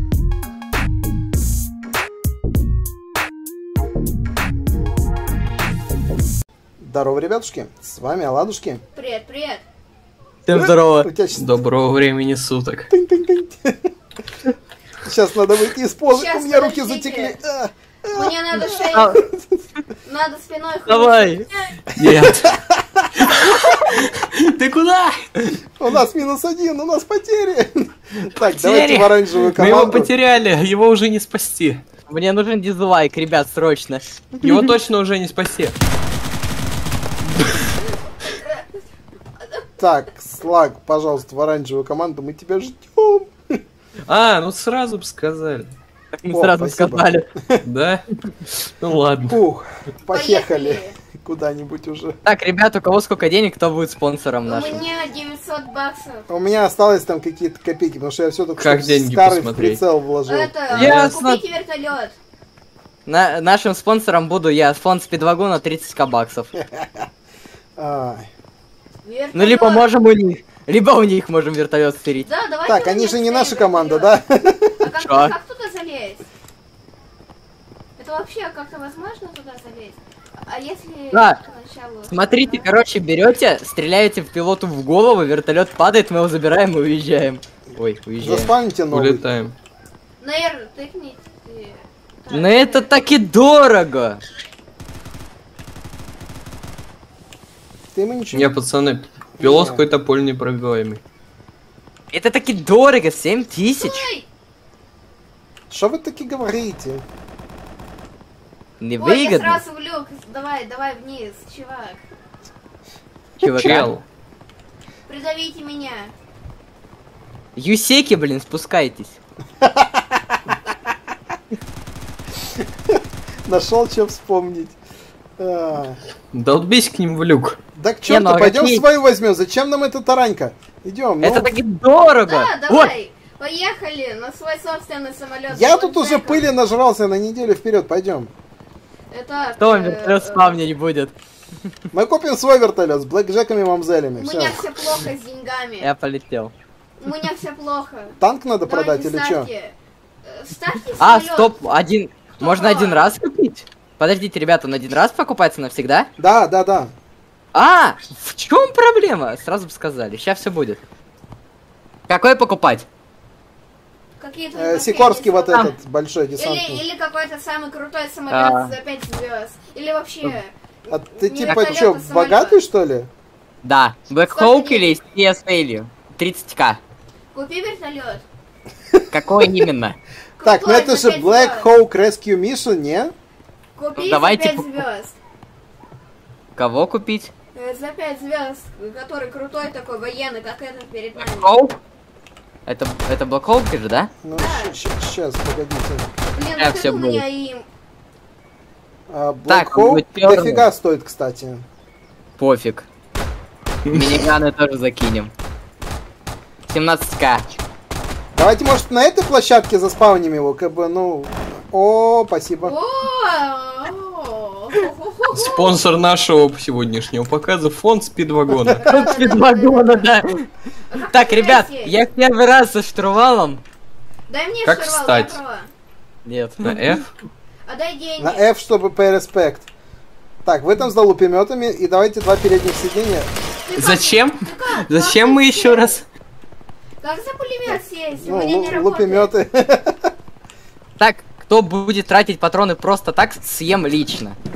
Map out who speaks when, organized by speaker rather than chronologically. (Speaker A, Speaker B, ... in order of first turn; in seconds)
Speaker A: 6.8-8.8, 10.5-11.4, 12.9-13.9, 15.0-19.4, 22.0-23.4, 25.8-30.1, 39.8-43.6, 46.3-47.6, 49.3-52.2, 56.3-60.5, 66.5-67.0, 67.8-68.3, 72.7-74.8, 88.2-89.2, 97.9-98.5, 99.4-99.9, 105.7-107.0, 119.6-120.4, 122.6-124.8, 125.4-126.0, 127.8-131.5, 135.5-138.3, 141.9-144.8, 148.2-149.5, 156.2-156.9, 164.5-166.8, 170.9-173.1, 180.4-183.1, 194.2-196.1, 199.1-201.6, 208.3-212.7, 228.2-229.7, 230.4-233.3, 238.2-240.1
Speaker B: 8.9-9.6, 16.1-17.4, 18.1-19.2, 20.0-21.8, 50.1-50.9, 54.5-56.3, 60.3-62.1, 69.0-69.9, 72.2-74.1, 74.8-76.2, 78.0-82.7, 90.2-92.9, 103.8-104.2, 109.0-112.0, 115.1-116.1, 132.3-136.5, 139.1-140.6, 144.2-145.9, 147.0-151.5, 152.4-153.1, 164.2-165.7, 166.4-172.6, 174.3-175.0, 177.3-178.2, 180.4-181.7, 183.8-185.1, 187.5-191.5, 194.3-194.8, 196.3-197.6, 212.6-215.8, 218.8-220.1, 220.9-222.0, 224.3-225.7, 227.7-228.5, 233.7-236.0, 237.0-239.3
Speaker C: 10.4-11.1, 18.9-19.2, 20.9-21.5, 32.1-34.2, 46.2-47.3, 52.2-54.8, 60.7-61.4, 63.1-66.5, 69.3-72.3, 75.0-75.3, 81.1-81.4, 82.1-88.5, 92.3-94.2, 102.1-104.1, 108.8-109.6, 113.4-113.9, 117.5-119.2, 128.1-128.8, 131.2-132.9, 139.6-141.1, 145.8-146.5, 151.0-156.1, 157.5-160.8, 162.1-162.8, 168.3-168.7, 173.6-176.8, 179.1-180.0, 184.0-184.8, 186.6-187.3, 191.2-191.8, 192.7-194.1, 196.6-197.2, 199.5-200.7, 202.4-202.8, 203.9-205.3, 206.7-207.6, 218.8-220.5, 221.1-223.6, 226.2-226.9, 241.0-244.4
Speaker D: 11.3-12.9, 21.9-22.5, 23.2-25.6, 28.4-31.8, 34.4-35.7, 44.1-45.7, 47.6-48.0, 48.6-49.4, 58.6-59.8, 60.7-61.1, 88.9-89.5, 98.3-101.0, 113.4-114.0, 126.3-127.6, 203.8-204.3, 215.3-218.8, 224.6-225.4, 226.6-227.1, 233.8-236.0